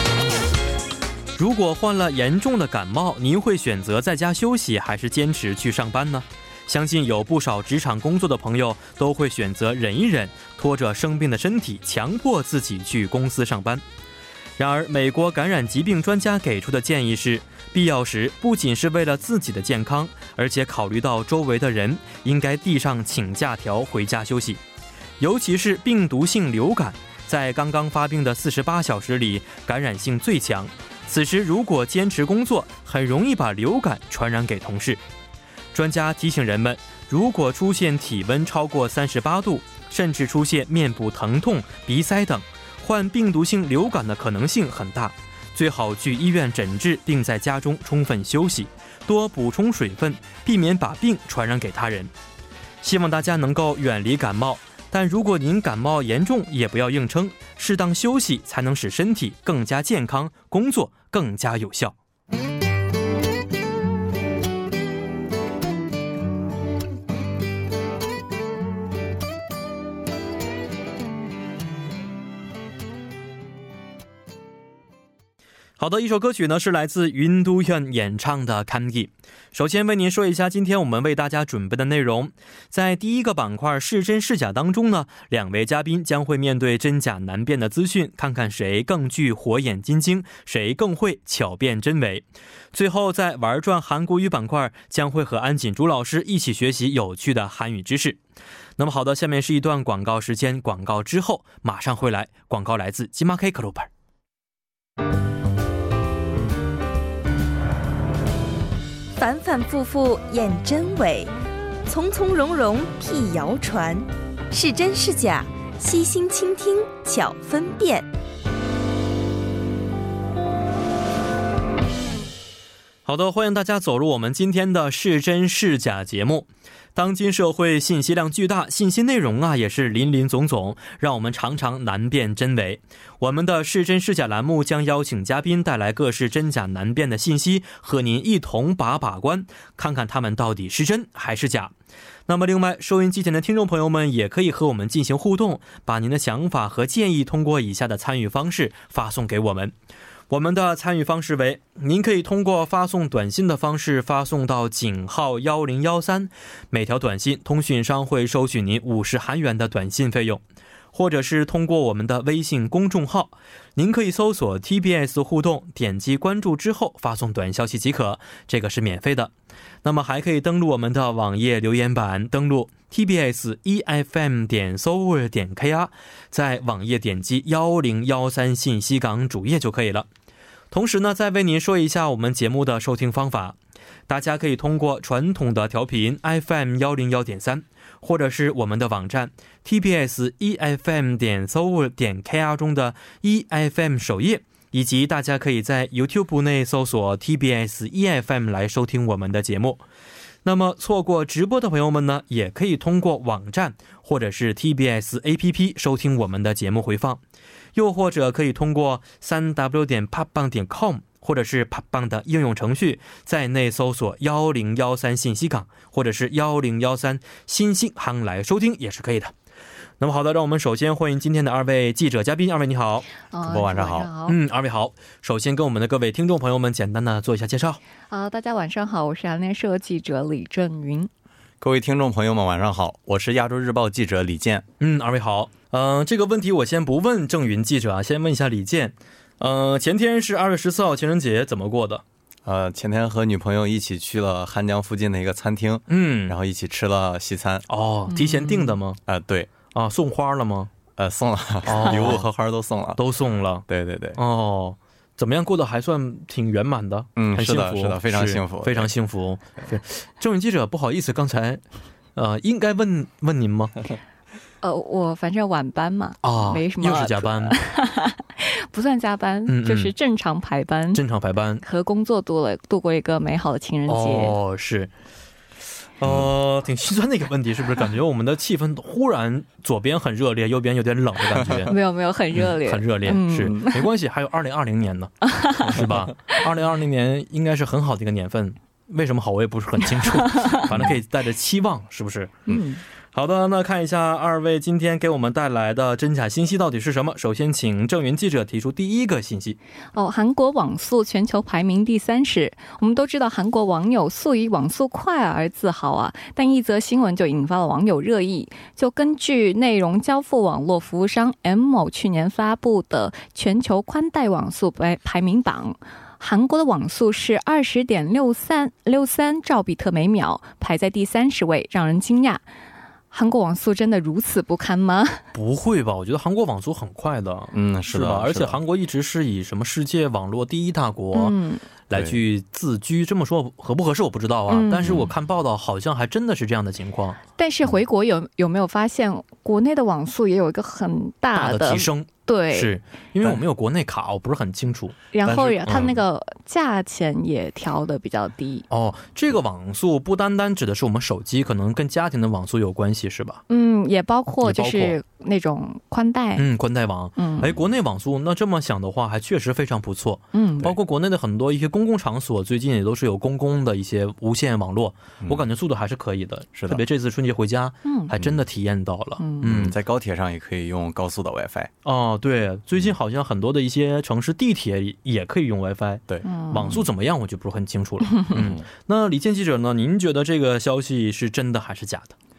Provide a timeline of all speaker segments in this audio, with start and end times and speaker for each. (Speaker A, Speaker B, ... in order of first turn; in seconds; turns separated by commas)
Speaker A: 1.4-13.8, Speaker A: 14.6-24.6, Speaker A: 25.2-35.0, Speaker A: 35.7-52.1, Speaker A: 52.8-61.9, Speaker A: 75.8-98.2, Speaker A: 98.8-103.9, Speaker B: 109.2-111.3, Speaker B: 111.9-118.1, Speaker A: 123.1-141.7, Speaker A: 142.3-149.7, Speaker A: 150.3-160.4, Speaker A: 160.9-169.3, Speaker A: 169.8-180.1, Speaker A: 180.7-183.6, Speaker A: 184.1-199.8, Speaker A: 200.4-207.2, Speaker A: 207.8-219.3, Speaker A: 220.0-223.1, Speaker C: 223.3-224.4, Speaker D: 223.4-224.1, Speaker A: 224.3-227.8, Speaker C: 228.1-231.1, Speaker D: 231.6-234.7, Speaker A: 234.8-242.0, Speaker D: 242.5-247.7, Speaker A: 245.9-246.4, Speaker A: 247.7-249.0, Speaker C: 248.1-248.8, Speaker D: 249.1-249.5, Speaker A: 249.7-250.7, Speaker D: 251.0-253.0, Speaker A: 251.7-252.2, Speaker A: 253.0-261.6, Speaker D: 253.7-254.2, Speaker D: 257.2-258.9, Speaker A: 262.2-263.8, Speaker C: 264.6-271.0, Speaker A: 266.2-267.6, Speaker A: 269.5-269.9, Speaker A: 270.9-271.6, Speaker C: 271.6-274.4, Speaker A: 273.9-274.9, Speaker A: 276.0-281.8, Speaker D: 276.0-276.3, Speaker D: 281.4-281.7, Speaker C: 281.7-283.8, Speaker A: 282.4-292.5, Speaker C: 285.3-285.8, Speaker C: 290.3-290.6, Speaker C: 292.5-292.8, Speaker A: 293.1-299.6, Speaker C: 299.9-322.4, Speaker C: 323.1-325.2, Speaker A: 325.3-331.4, Speaker D: 327.5-328.6, Speaker C: 331.1-331.6, Speaker A: 331.9-337.2, Speaker D: 331.9-332.2, Speaker C: 334.5-335.0, Speaker C: 337.4-342.7, Speaker A: 341.4-345.9, Speaker C: 345.1-348.7, Speaker D: 345.3-346.0, Speaker A: 348.7-353.4, Speaker C: 353.5-356.5, Speaker A: 354.4-355.0, Speaker A: 356.4-369.8, Speaker C: 357.2-357.5, Speaker C: 360.3-360.7, Speaker D: 366.6-366.8, Speaker C: 367.9-368.1, Speaker D: 368.1-368.4, Speaker C: 369.2-369.4, Speaker D: 369.4-371.7, Speaker A: 371.9-382.1, Speaker C: 376.2-376.8, Speaker D: 378.3-378.6